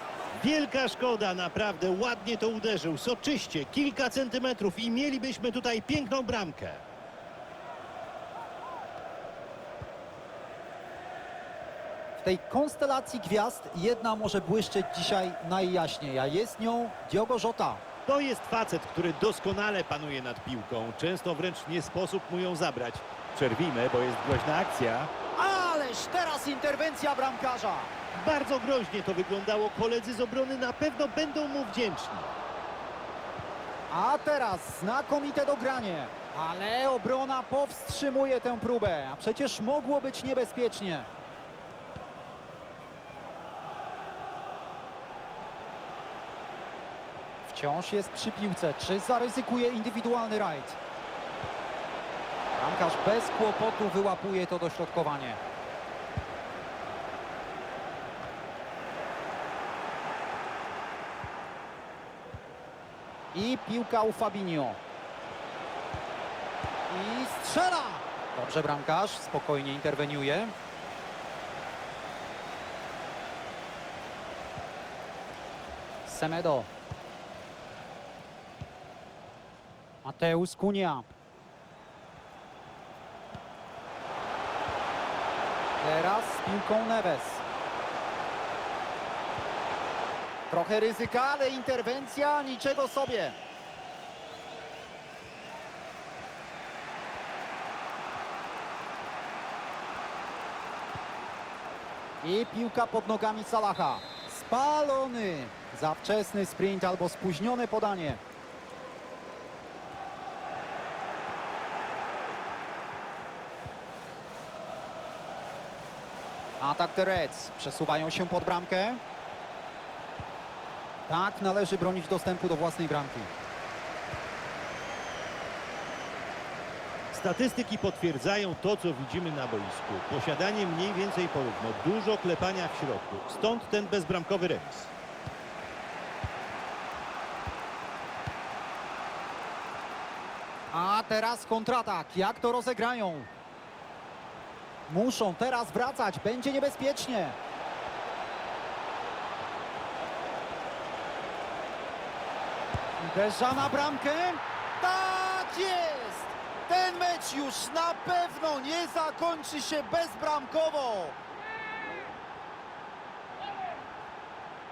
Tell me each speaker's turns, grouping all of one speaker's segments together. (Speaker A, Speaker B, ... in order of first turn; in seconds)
Speaker A: 0.4-6.8, 18.1-25.1, 28.1-32.3, 127.1-134.9
Speaker B: 12.2-17.8, 25.4-27.9, 33.9-41.1, 47.4-50.8, 52.5-55.4, 63.3-64.8, 66.9-70.5, 76.0-76.7, 80.0-81.0, 85.8-87.4, 90.5-93.4, 102.2-108.2, 116.6-119.0, 121.1-123.3, 140.7-143.3, 144.9-147.4, 153.0-161.2